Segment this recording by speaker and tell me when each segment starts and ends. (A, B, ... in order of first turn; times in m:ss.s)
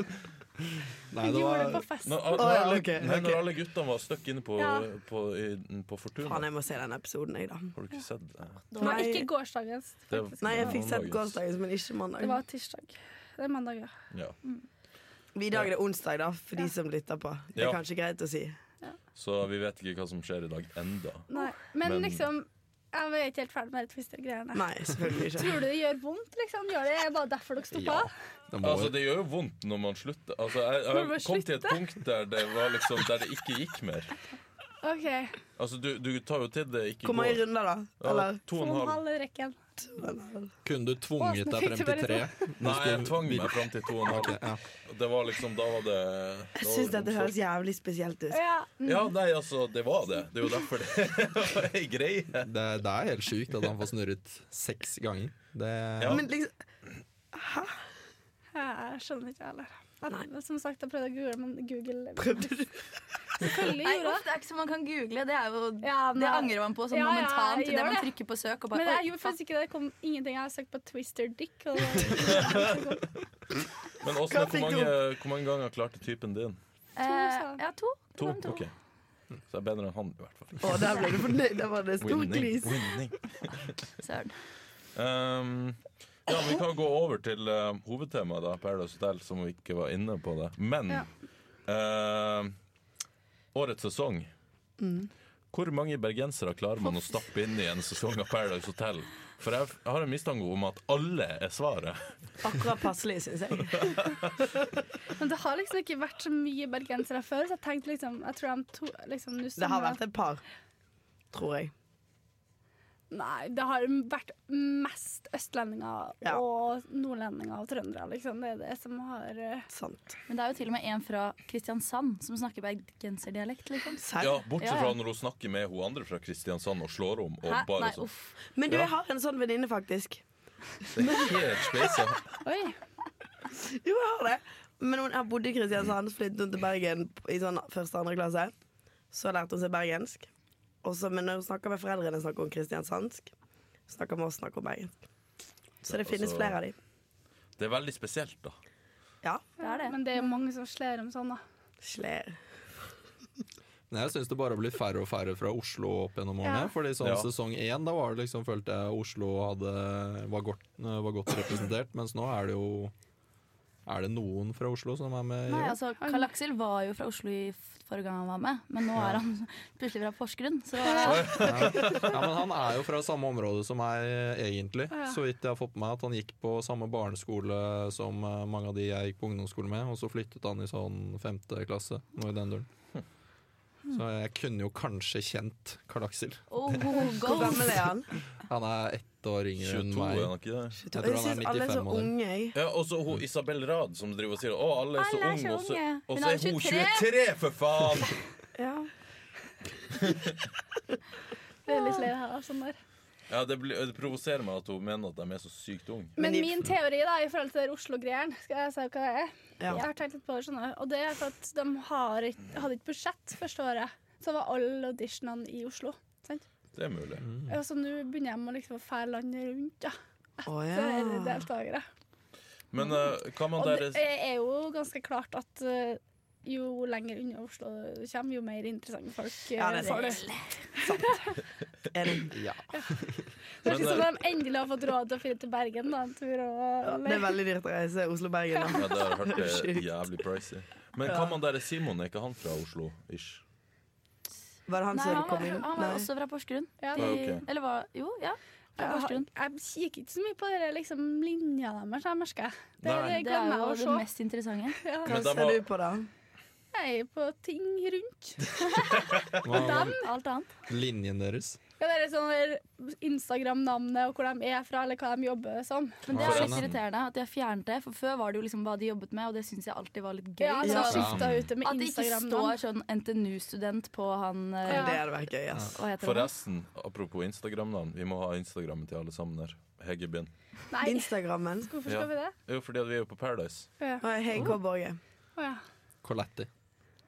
0:01.1-0:01.9 A
0:01.2-0:02.4 B
0:02.0-0:06.4 C
0:02.4-0:03.4 D
0:04.6-0:04.8 B
0:06.2-0:07.7 D
0:07.7-0:08.6 C
0:08.7-0:09.2 E
0:08.8-0:10.8 B
0:08.8-0:09.3 D
0:10.1-0:11.4 C
0:10.4-0:12.4 D
0:12.2-0:13.9 B
0:14.1-0:14.4 C
0:15.3-0:18.6 D
0:19.2-0:21.3 C
0:21.3-0:28.1 B
0:21.8-0:22.3 C
0:24.5-0:25.6 D
0:27.7-0:28.9 A
0:28.6-0:34.1 C
0:30.9-0:31.8 B
0:34.8-0:35.4 B
0:35.6-0:37.4 C
0:37.0-0:38.4 D
0:38.0-0:39.0 C
0:38.5-0:39.6 B
0:39.8-0:40.5 D
0:40.6-0:44.6 A
0:41.2-0:42.3 B
0:42.6-0:47.3 C
0:46.6-0:48.4 D
0:48.3-0:49.0 B
0:48.8-0:52.5 C
0:52.4-0:56.2 A
0:56.0-0:56.2 C
0:56.1-0:56.5 D
0:57.3-0:57.8 D
0:58.5-1:02.6 B
1:02.2-1:02.7 D
1:03.4-1:04.2 B
1:03.8-1:09.3 E
1:05.8-1:08.1 B
1:08.7-1:13.0 B
1:12.2-1:12.8 C
1:14.0-1:16.6 C
1:14.3-1:14.9 D
1:17.0-1:18.6 E
1:17.0-1:17.6 B
1:18.2-1:18.7 C
1:19.5-1:21.1 C
1:20.6-1:22.8 D
1:20.9-1:21.2 E
1:22.0-1:23.6 C
1:24.0-1:24.4 E
1:25.0-1:31.1 C
1:31.7-1:32.5 C
1:33.5-1:34.3 C
1:34.8-1:35.1 D
1:35.5-1:42.0 C
1:36.8-1:37.2 E
1:42.4-1:43.9 D
1:45.2-1:50.0 B
1:49.6-1:50.4 D
1:51.3-1:51.7 D
1:53.1-1:59.7 B
1:59.7-2:00.2 D
2:00.3-2:05.0 E
2:04.0-2:04.3 D
2:04.2-2:08.0 C
2:07.4-2:08.3 E
2:08.5-2:10.2 D
2:10.9-2:12.2 C
2:11.0-2:11.3 D
2:12.4-2:12.8 B
2:13.8-2:18.5 D
2:19.1-2:20.3 D
2:20.8-2:23.3 D
2:23.9-2:24.9 D
2:25.8-2:26.8 D
2:25.8-2:26.6 C
2:27.6-2:28.5 C
2:29.6-2:30.0 E
2:29.6-2:31.4 B
2:31.8-2:32.4 D
2:33.9-2:42.9 A
2:36.4-2:36.7 B
2:37.0-2:37.3 C
2:43.8-2:45.8 A
2:45.5-2:51.5 E
2:46.0-2:46.3 B
2:50.9-2:51.3 B
2:51.0-2:52.2 C
2:51.4-3:02.7 A
2:54.9-2:55.2 B
3:03.9-3:07.0 A
3:06.5-3:07.8 E
3:07.2-3:08.1 D
3:08.5-3:10.3 A
3:09.6-3:10.8 C
3:10.8-3:12.6 D
3:10.9-3:12.1 A
3:12.5-3:18.1 C
3:15.0-3:17.1 E
3:18.6-3:18.9 D
3:20.0-3:20.3 C
3:21.6-3:22.8 B
3:21.7-3:22.0 E
3:23.3-3:26.2 C
3:26.2-3:36.4 B
3:26.2-3:26.6 D
3:29.6-3:29.8 D
3:36.7-3:37.3 C
3:37.3-3:37.6 A
3:37.5-3:41.8 B
3:40.4-3:41.4 D
3:42.7-3:44.0 C
3:42.8-3:50.2 B
3:49.6-3:50.2 D
3:49.8-3:50.5 E
3:50.8-3:51.3 D
3:51.9-3:52.3 D
3:52.3-3:53.2 A
3:53.6-3:57.3 B
3:53.6-3:54.1 C
3:56.8-3:59.8 D
3:58.7-4:03.4 C
4:01.0-4:01.3 D
4:04.7-4:06.1 D
4:04.9-4:09.3 E
4:06.8-4:07.2 B
4:07.0-4:07.4 C
4:08.8-4:14.0 B
4:12.8-4:13.2 C
4:13.0-4:14.8 E
4:14.8-4:15.2 B
4:15.0-4:15.6 C
4:15.0-4:16.1 D
4:16.7-4:20.1 B
4:19.4-4:20.0 A
4:19.6-4:20.5 E
4:20.7-4:21.6 A
4:21.8-4:26.1 B
4:26.1-4:35.0 E
4:26.1-4:26.7 A
4:26.1-4:26.8 C
4:30.4-4:32.6 B
4:30.6-4:30.9 D
4:30.9-4:31.4 A
4:31.1-4:31.4 C
4:34.6-4:35.7 D
4:34.7-4:35.0 B
4:35.7-4:36.3 E
4:36.0-4:40.3 C
4:40.7-4:41.1 B
4:40.8-4:41.7 D
4:41.6-4:42.3 B
4:41.9-4:43.7 C
4:43.8-4:44.0 B
4:44.0-4:45.0 D
4:45.4-4:45.6 B
4:46.0-4:46.5 A